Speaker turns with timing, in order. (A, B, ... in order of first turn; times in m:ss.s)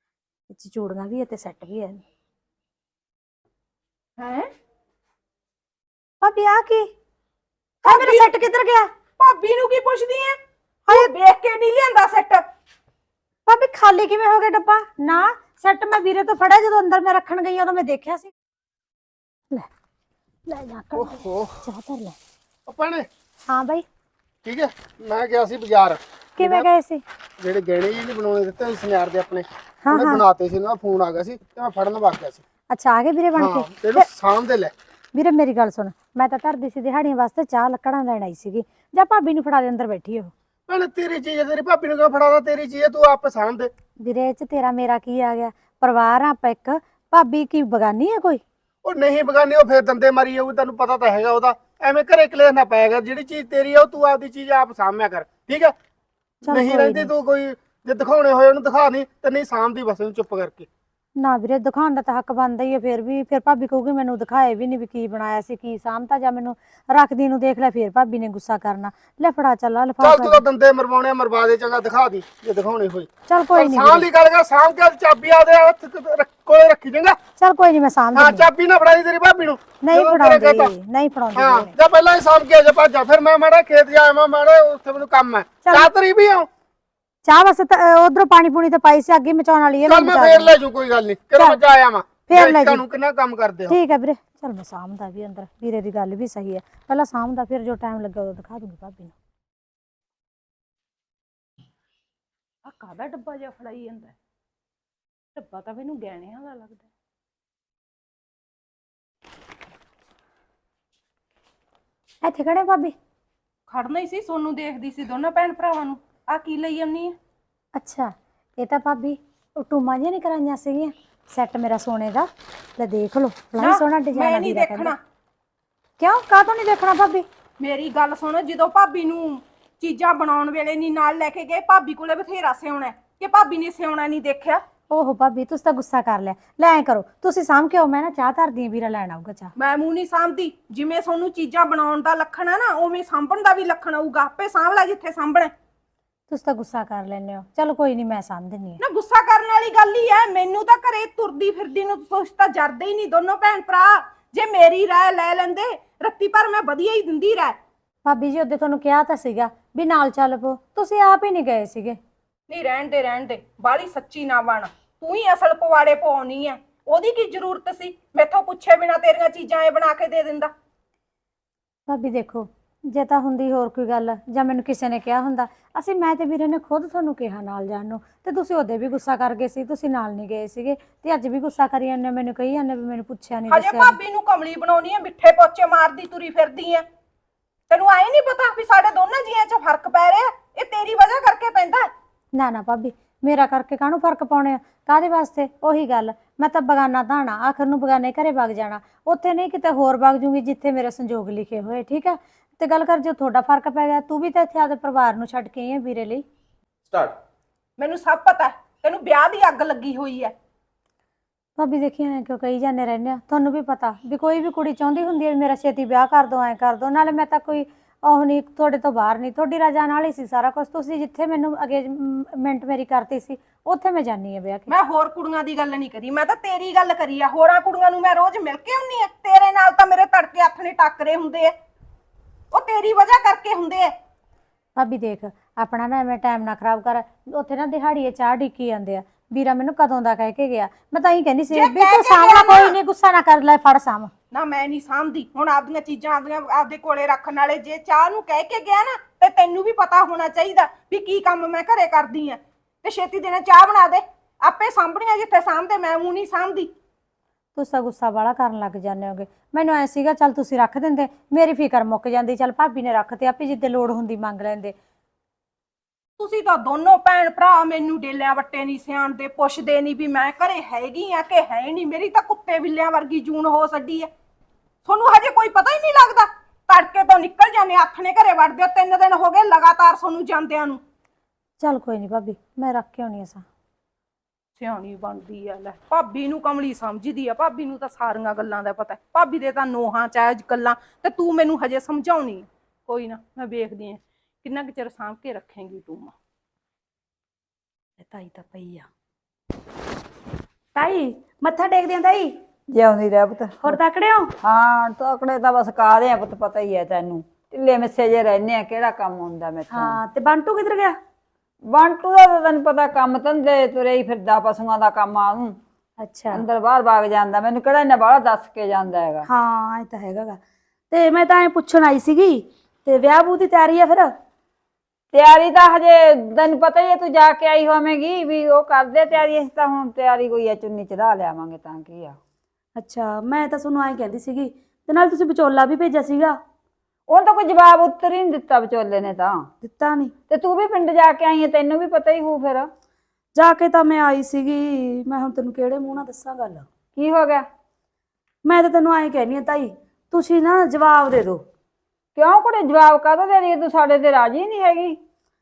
0:00.5-0:02.0 A
0:04.2-0:04.5 B
0:06.2-0:06.9 A
0:07.8-0:08.9 A
0:07.8-0:08.3 B
0:09.2-0:10.4 B
0:10.9-0:12.4 B
0:13.5-0:18.3 A
0:20.5-0:22.2 A
0:20.9-0:21.6 C
0:22.7-0:23.1 C
0:23.5-0:23.8 A
0:24.4-0:26.7 C
0:26.4-0:27.0 A
0:27.4-0:32.4 C
0:29.8-0:30.2 A
0:32.7-0:34.1 A
0:33.4-0:34.7 C
0:35.1-0:40.3 A
0:40.7-0:43.7 C
0:44.0-0:48.4 A
0:48.8-0:55.7 C
0:56.4-0:57.1 A
0:56.5-1:00.7 C
1:01.2-1:10.4 A
1:10.0-1:17.2 C
1:13.3-1:14.0 A
1:17.4-1:18.4 A
1:18.1-1:20.7 C
1:19.8-1:21.7 A
1:21.4-1:26.5 C
1:27.2-1:30.5 A
1:29.9-1:33.8 C
1:32.3-1:32.8 A
1:33.7-1:39.1 A
1:42.6-1:44.1 B
1:45.3-1:46.9 B
1:52.2-1:52.9 A
1:53.7-1:57.1 B
1:57.8-2:04.9 A
2:03.6-2:05.0 B
2:06.0-2:07.2 A
2:07.6-2:14.6 B
2:14.9-2:19.5 A
2:19.6-2:25.5 B
2:26.3-2:28.8 A
2:28.8-2:37.6 B
2:38.0-2:42.0 A
2:42.5-2:50.5 B
2:51.9-3:04.0 A
3:03.5-3:06.8 B
3:07.7-3:11.9 B
3:12.3-3:26.2 A
3:27.8-3:30.3 B
3:31.6-3:44.7 A
3:44.7-3:51.5 B
3:52.5-3:53.9 B
3:54.8-4:04.1 A
4:01.5-4:02.7 B
4:04.3-4:16.7 B
4:17.6-4:24.7 A
4:26.2-4:34.1 B
4:34.8-4:40.8 B
4:41.6-4:43.4 A
4:44.6-4:56.1 B
4:58.0-4:58.9 D
5:00.7-5:02.4 D
5:02.7-5:03.8 E
5:03.6-5:04.3 D
5:04.4-5:10.0 E
5:09.7-5:11.0 D
5:11.7-5:15.6 E
5:16.0-5:16.4 D
5:16.3-5:19.3 E
5:19.2-5:20.4 D
5:20.9-5:24.1 D
5:25.1-5:32.2 E
5:32.8-5:36.4 D
5:37.1-5:39.5 E
5:39.6-5:40.1 D
5:40.3-5:42.7 E
5:43.4-5:46.7 D
5:47.0-5:47.4 E
5:48.4-5:51.4 D
5:52.2-5:55.0 E